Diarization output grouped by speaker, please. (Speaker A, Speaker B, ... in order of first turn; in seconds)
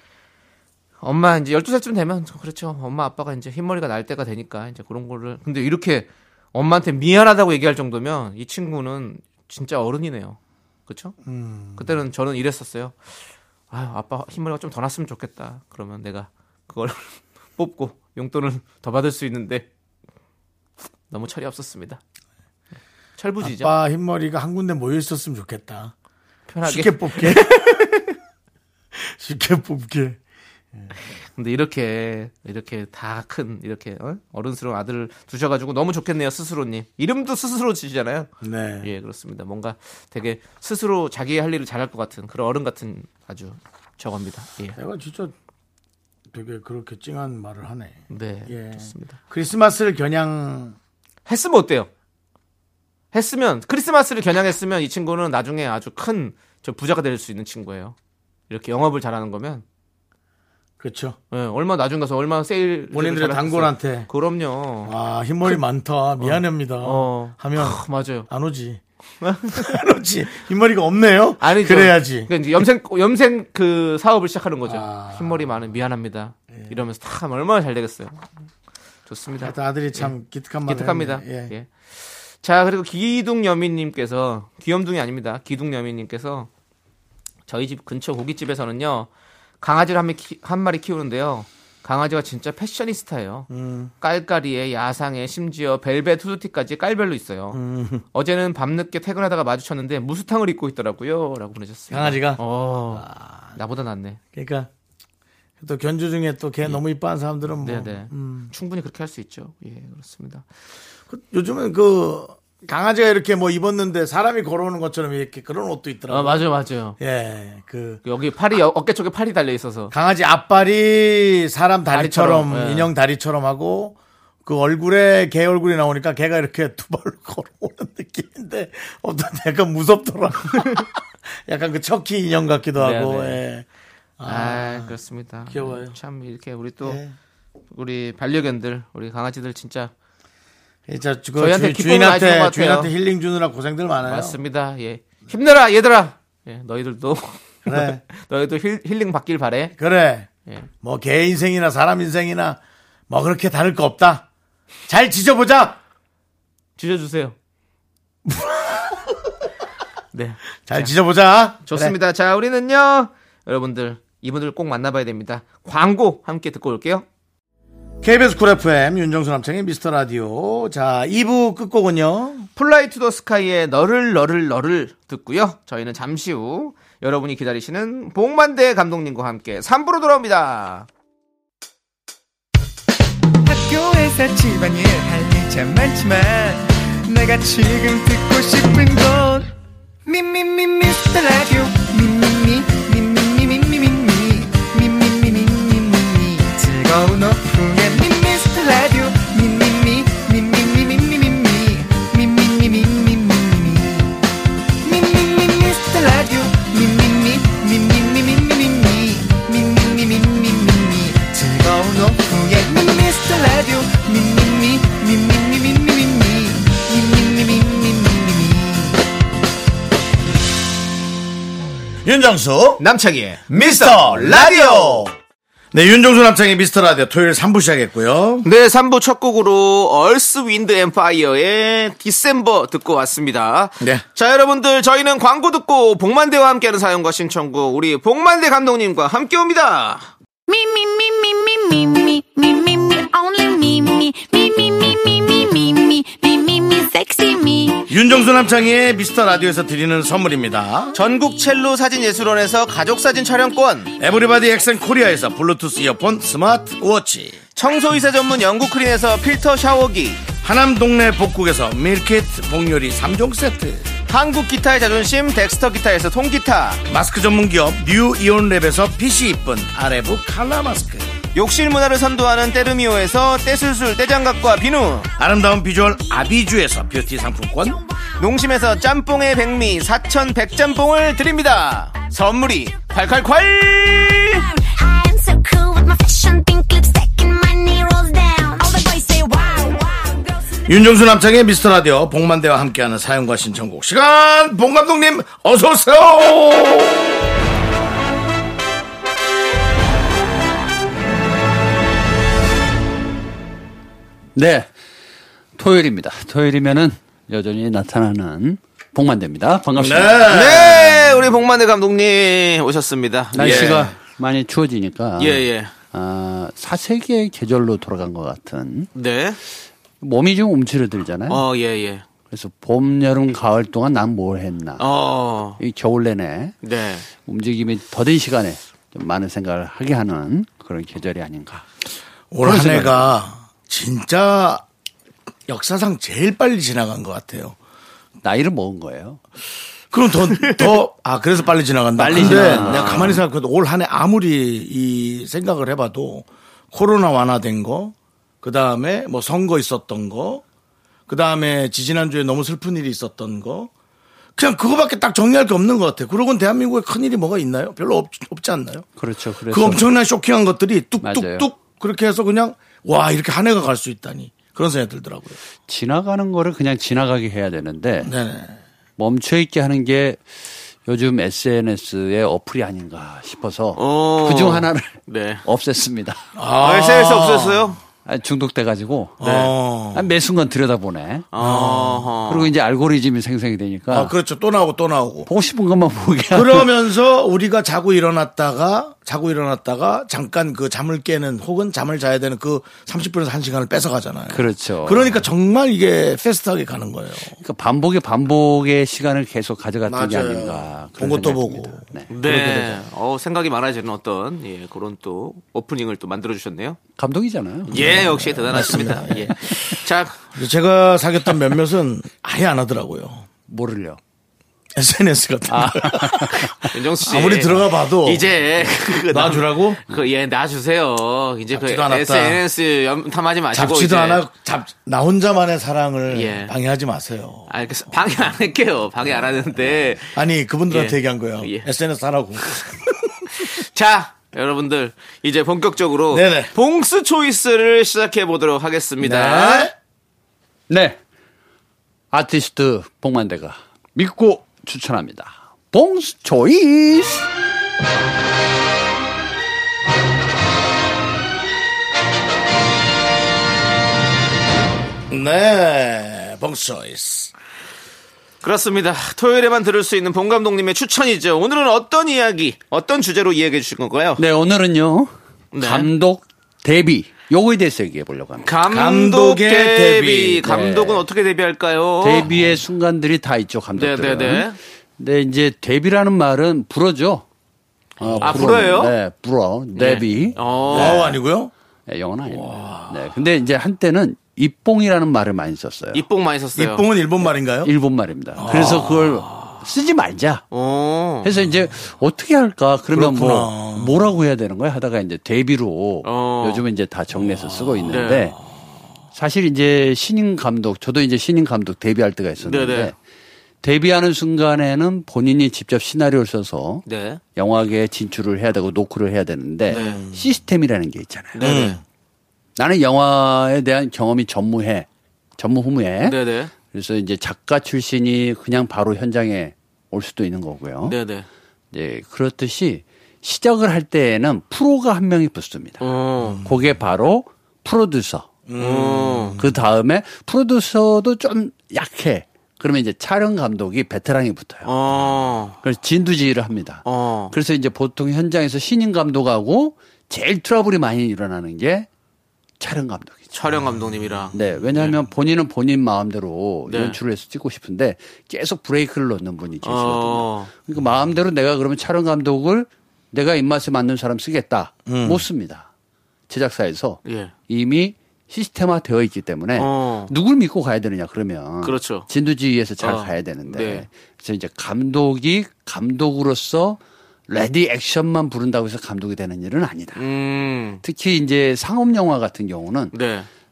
Speaker A: 1.0-11.2, 11.8-13.2, 13.7-19.7, 21.1-22.0, 23.2-23.7, 26.5-28.1, 30.9-38.3, 38.8-44.8, 48.1-49.2, 51.3-51.9, 53.1-57.9, 58.5-59.6, 61.3-64.9, 66.2-68.3, 69.2-69.8, 71.4-78.3, 79.1-80.1, 80.7-86.5, 87.5-89.1, 89.6-93.5, 94.0-97.6, 98.1-104.2, 107.6-110.4, 116.1-117.0, 118.0-119.9, 121.9-122.9, 132.8-133.4, 134.2-137.0, 137.7-139.9, 141.4-142.9, 144.0-149.7, 156.8-157.3, 160.1-160.9, 161.6-167.0, 172.6-180.9, 222.8-225.1, 228.4-240.1, 250.9-253.9, 257.6-260.2, 264.1-266.8, 271.3-275.1, 278.2-284.5, 310.2-313.9, 315.2-315.7, 318.9-319.4, 321.3-322.0, 324.8-325.6, 326.6-327.1, 342.1-343.2, 373.8-375.4, 376.6-377.8, 381.3-382.5, 402.1-406.8, 407.7-410.3, 416.6-424.2, 426.1-426.5, 427.5-430.1, 430.7-431.7, 432.4-432.7, 433.3-439.7, 458.4-464.2, 465.5-465.9, 468.4-472.3, 473.8-474.6, 478.2-478.9, 479.7-481.1, 485.9-486.9, 490.5-491.3, 496.0-496.6, 497.9-498.3, 502.4-502.9, 506.9-507.2, 509.7-510.0, 511.3-511.8, 516.0-516.5, 520.8-521.3, 525.8-526.4, 528.6-529.4, 534.6-535.6, 536.8-537.3, 543.3-545.0, 546.7-547.0, 549.6-550.5, 557.0-557.3, 559.5-560.1, 561.6-562.1, 562.8-563.8, 570.0-570.8, 572.9-573.3
Speaker B: 11.2-12.0, 23.4-25.9, 26.6-27.9, 28.9-30.2, 38.4-38.9, 44.8-45.3, 46.3-50.8, 60.8-61.2, 62.9-64.1, 64.8-68.8, 69.5-72.3, 74.6-75.6, 76.5-76.8, 79.4-81.5, 93.5-93.9, 97.5-98.0, 101.9-103.5, 104.3-104.7, 105.6-108.5, 111.1-116.4, 117.0-118.0, 119.9-133.7, 134.2-135.9, 136.8-137.1, 140.9-144.4, 147.7-148.0, 149.8-150.3, 150.8-154.2, 154.9-155.8, 158.3-159.1, 160.7-161.9, 168.0-172.5, 222.0-222.8, 223.5-225.1, 225.7-228.5, 247.9-250.9, 254.0-257.4, 260.4-263.9, 266.9-271.1, 275.2-277.8, 290.7-297.1, 309.8-311.1, 313.4-313.7, 332.3-334.6, 335.5-337.6, 339.9-350.4, 351.1-353.7, 354.4-358.9, 359.5-365.4, 368.0-368.6, 376.3-377.8, 379.2-380.1, 381.4-382.1, 383.9-385.3, 386.3-397.4, 399.9-402.8, 407.7-409.6, 410.3-413.2, 414.7-418.3, 419.1-419.8, 421.5-422.4, 423.5-427.6, 430.1-433.3, 436.1-436.5, 439.0-439.7, 455.1-457.3, 468.7-470.6, 478.0-478.5, 480.7-481.5, 482.2-483.1, 486.5-487.7, 488.4-489.5, 492.9-493.9, 509.8-510.2, 511.4-511.8, 526.2-526.6, 528.5-529.6, 554.9-555.2
Speaker C: 183.4-189.5, 190.1-204.2, 204.8-219.0
Speaker D: 240.5-247.9, 284.6-290.3
Speaker E: 304.3-304.7, 305.6-310.4, 313.3-318.9, 320.0-321.4, 322.3-324.9, 325.6-326.5, 327.1-331.6, 332.4-333.1, 338.2-339.2, 342.0-343.2, 359.0-359.8, 361.0-361.5, 365.7-368.1, 369.0-370.3, 370.8-376.2, 378.0-381.3, 382.3-384.1, 385.3-386.7, 394.3-395.2, 397.3-402.1, 406.9-408.5, 413.5-414.0, 415.5-416.7, 440.7-441.0, 442.1-447.3, 464.2-468.5, 470.4-471.1, 472.0-477.2, 478.0-481.1, 481.9-486.1, 487.6-490.4, 491.2-498.4, 499.1-502.9, 503.6-511.6, 512.6-521.0, 521.7-525.9, 526.4-528.3, 529.4-534.7, 535.6-541.9, 542.6-543.3, 544.3-555.7, 556.3-570.1, 570.8-573.0